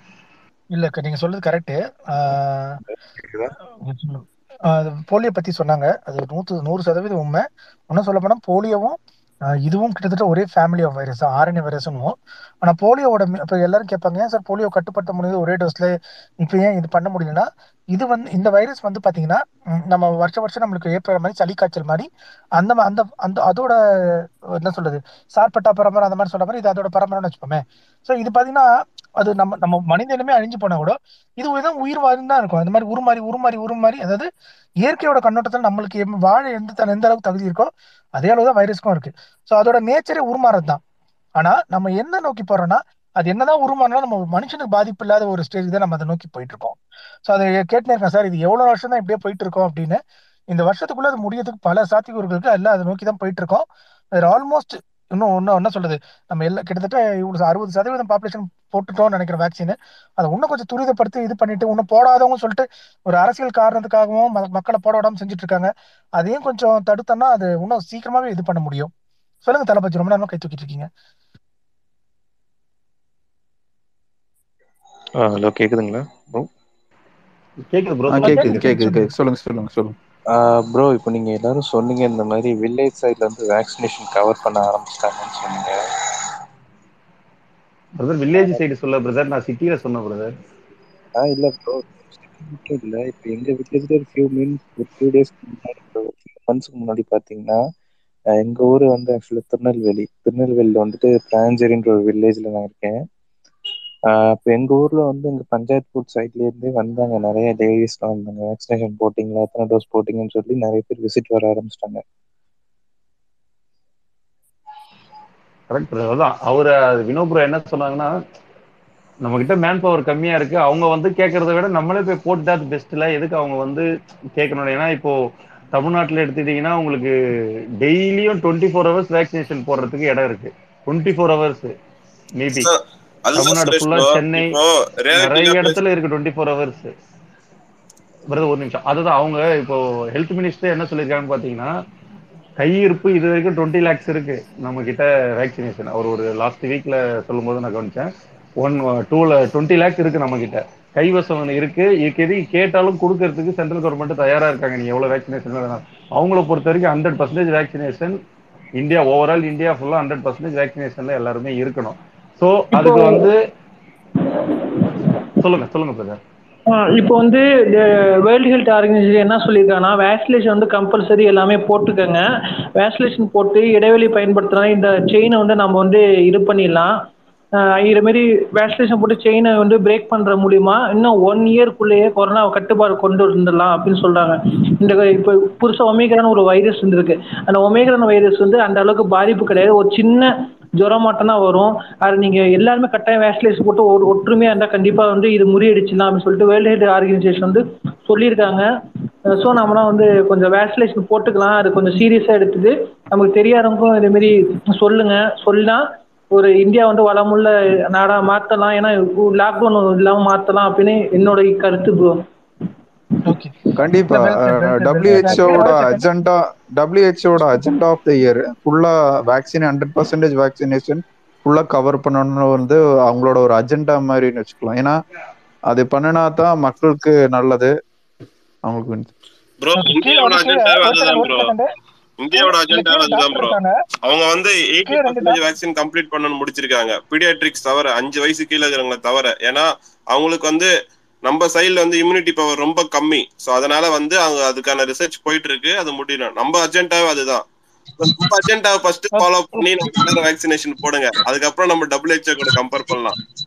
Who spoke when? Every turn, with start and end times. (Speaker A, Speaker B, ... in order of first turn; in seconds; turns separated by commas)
Speaker A: 0.7-2.8, Speaker B: 3.2-3.5, Speaker A: 3.9-9.0, Speaker A: 9.6-28.7, Speaker A: 29.2-34.3, Speaker A: 34.8-40.8, Speaker A: 41.4-46.8, Speaker A: 47.3-50.0, Speaker A: 50.5-53.6, Speaker A: 54.2-68.9, Speaker A: 69.5-70.9, Speaker B: 75.2-76.5, Speaker C: 77.7-78.8, Speaker D: 78.1-80.0, Speaker A: 78.2-79.0, Speaker B: 80.3-85.8, Speaker C: 88.0-90.3, Speaker B: 91.2-97.6, Speaker B: 98.3-103.0, Speaker B: 104.1-112.0, Speaker C: 115.7-118.1, Speaker C: 119.2-125.1, Speaker C: 125.7-127.1, Speaker C: 127.8-131.7, Speaker C: 132.4-132.7, Speaker E: 132.6-135.8, Speaker C: 133.3-134.5, Speaker C: 135.1-136.9, Speaker C: 138.3-141.7, Speaker C: 142.6-158.2, Speaker C: 158.8-163.3, Speaker F: 162.7-163.3, Speaker C: 165.4-166.2, Speaker F: 166.7-172.2, Speaker F: 172.8-176.9, Speaker F: 177.6-198.6, Speaker F: 199.3-205.8, Speaker F: 206.3-212.2, Speaker A: 213.2-216.1, Speaker D: 213.8-225.0, Speaker D: 225.7-227.7, Speaker D: 228.7-229.1, Speaker E: 229.6-231.5, Speaker A: 229.8-231.7, Speaker E: 232.2-233.5, Speaker A: 232.3-233.7, Speaker E: 234.1-240.7, Speaker A: 234.8-235.4, Speaker E: 241.2-247.4, Speaker E: 248.0-253.2